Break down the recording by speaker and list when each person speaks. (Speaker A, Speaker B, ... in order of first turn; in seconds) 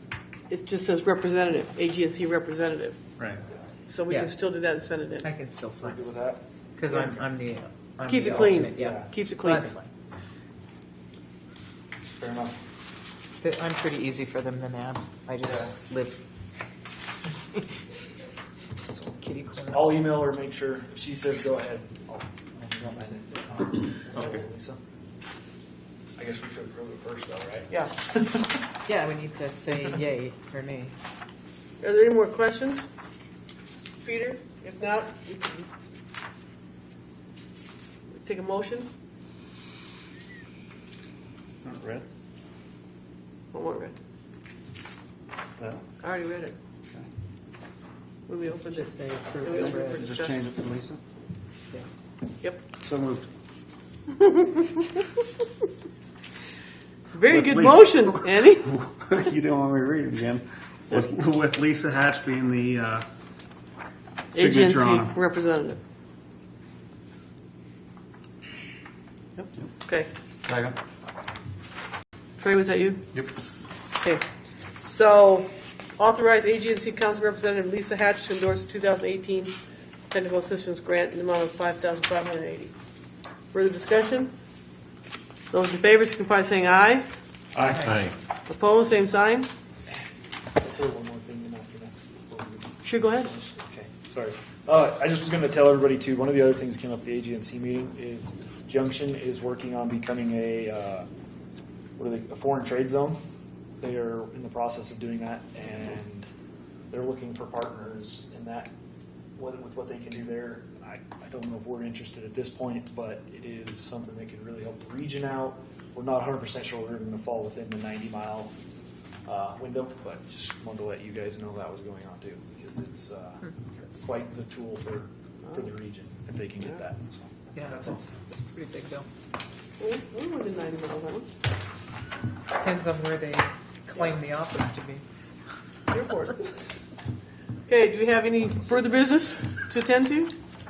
Speaker A: 0.5-3.0, 3.9-5.3, 8.1-9.7, 31.8-32.9, 34.0-35.7, 38.1-38.9, 43.5-44.0, 46.0-46.6, 48.3-50.4, 54.1-55.0, 57.1-58.7, 64.3-65.8, 69.4-70.1, 72.4-73.1, 74.8-79.6, 80.1-82.7, 83.5-84.3, 85.5-87.1, 88.5-89.5, 92.8-93.3, 129.8-131.3, 135.9-136.6, 137.7-140.4
Speaker B: 5.2-6.0, 6.8-9.9, 13.4-16.2, 19.0-20.0, 28.9-30.9, 48.5-50.0, 87.6-88.0, 127.5-129.1, 132.6-135.0
Speaker C: 5.8-6.4, 8.6-9.1, 12.2-12.6, 15.4-15.7, 19.7-24.8, 26.2-27.7, 87.6-87.9, 90.6-101.1, 102.0-103.2, 103.8-106.3, 106.9-108.7, 109.4-118.5, 119.3-128.0
Speaker D: 41.6-42.0, 45.6-45.8, 49.5-51.0, 52.8-53.3, 57.3-63.1, 64.3-65.1, 70.5-70.8, 87.6-88.1